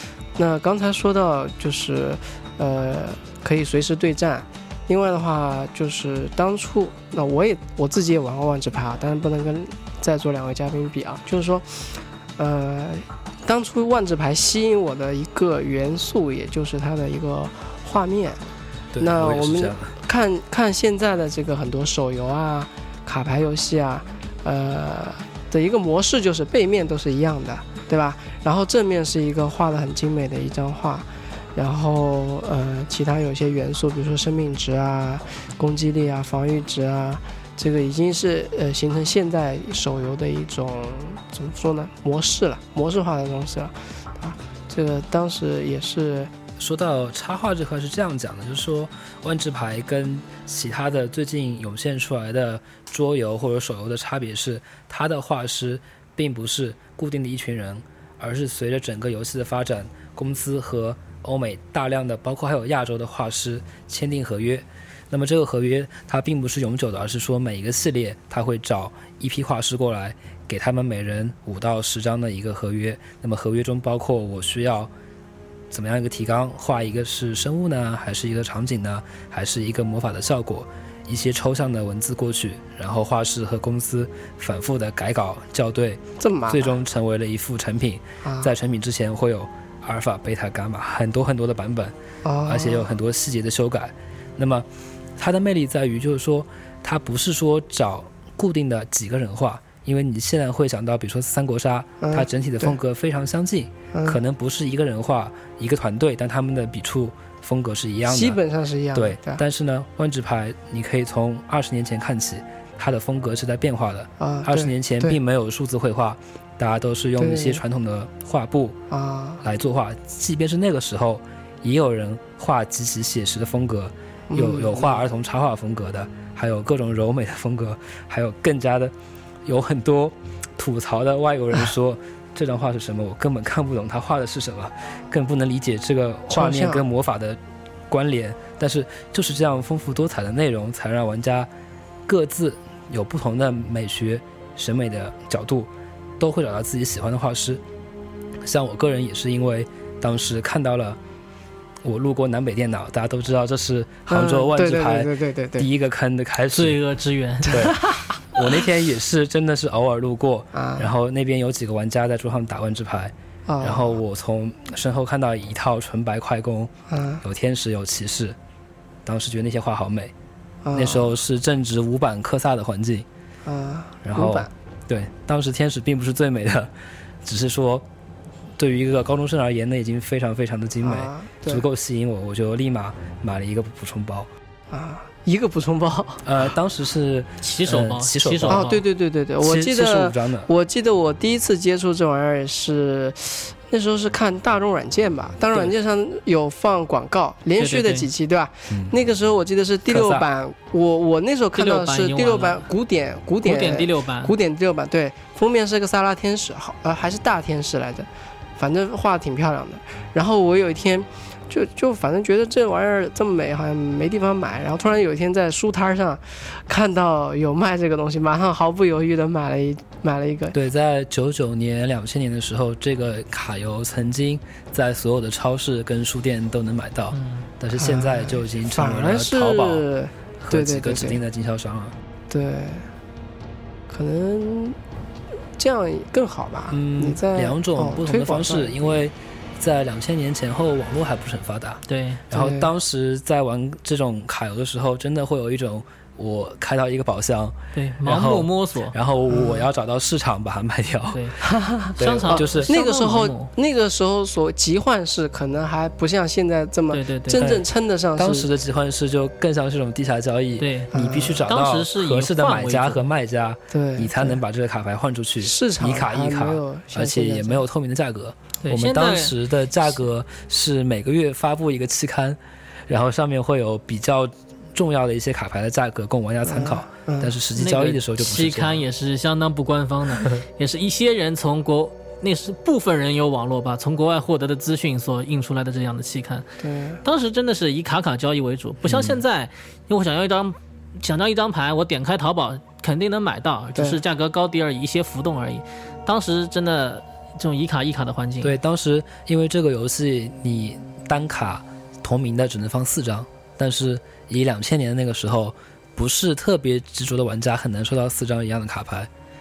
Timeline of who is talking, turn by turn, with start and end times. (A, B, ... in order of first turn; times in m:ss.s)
0:00.4-0:18.4 A
0:18.9-0:19.9 B
0:19.0-0:46.3 A
0:46.6-1:14.9 B
1:15.7-1:32.0 B
1:26.2-1:26.8 A
1:28.2-1:28.5 A
1:32.2-1:32.9 A
1:32.5-1:48.4 B
1:42.0-1:42.8 A
1:43.9-1:44.2 A
1:48.1-1:49.4 A
1:48.9-1:58.8 B
1:54.2-1:55.2 A
1:57.2-1:57.6 A
1:58.9-1:59.4 A
1:59.4-2:08.9 B
2:04.3-2:05.1 A
2:09.5-2:21.5 B
2:16.3-2:16.9 A
2:22.1-2:27.6 B
2:28.4-2:31.0 B
2:31.8-2:36.8 B
2:34.1-2:35.7 A
2:36.5-2:37.7 C
2:37.5-2:48.4 B
2:37.5-2:38.5 A
2:40.5-2:40.9 A
2:43.5-2:44.0 A
2:46.9-2:47.2 A
2:49.0-2:50.1 B
2:50.6-2:51.2 A
2:50.7-2:53.1 B
2:53.5-2:54.5 A
2:54.0-2:56.7 B
2:57.2-2:57.8 B
2:58.6-3:04.3 B
3:00.8-3:01.7 A
3:04.7-3:06.4 A
3:06.2-3:08.7 B
3:07.4-3:08.8 C
3:08.5-3:40.6 A
3:09.4-3:10.5 B
3:17.6-3:18.1 C
3:18.7-3:19.0 B
3:19.9-3:20.3 B
3:21.6-3:22.7 C
3:23.4-3:24.3 C
3:40.5-3:49.9 B
3:47.1-3:47.5 C
3:47.8-3:51.2 A
3:50.4-3:52.0 B
3:52.3-3:52.9 A
3:53.9-3:54.8 A
3:55.6-3:59.0 A
3:56.7-4:11.4 B
4:01.9-4:02.3 C
4:02.3-4:02.7 A
4:07.7-4:09.0 C
4:09.3-4:09.7 A
4:11.1-4:11.4 C
4:11.4-4:18.5 A
4:12.0-4:12.7 B
4:12.0-4:13.5 C
4:16.9-4:17.5 C
4:17.4-4:17.6 B
4:18.2-4:38.8 B
4:20.6-4:20.9 C
4:20.9-4:21.5 A
4:21.4-4:23.0 C
4:23.7-4:24.4 A
4:25.4-4:27.6 A
4:28.6-4:29.4 C
4:36.4-4:37.3 A
4:37.6-4:46.5 C
4:46.6-4:47.0 A
4:47.0-4:58.6 C
4:48.8-4:49.2 B
4:53.8-4:54.0 A
4:58.4-5:09.1 B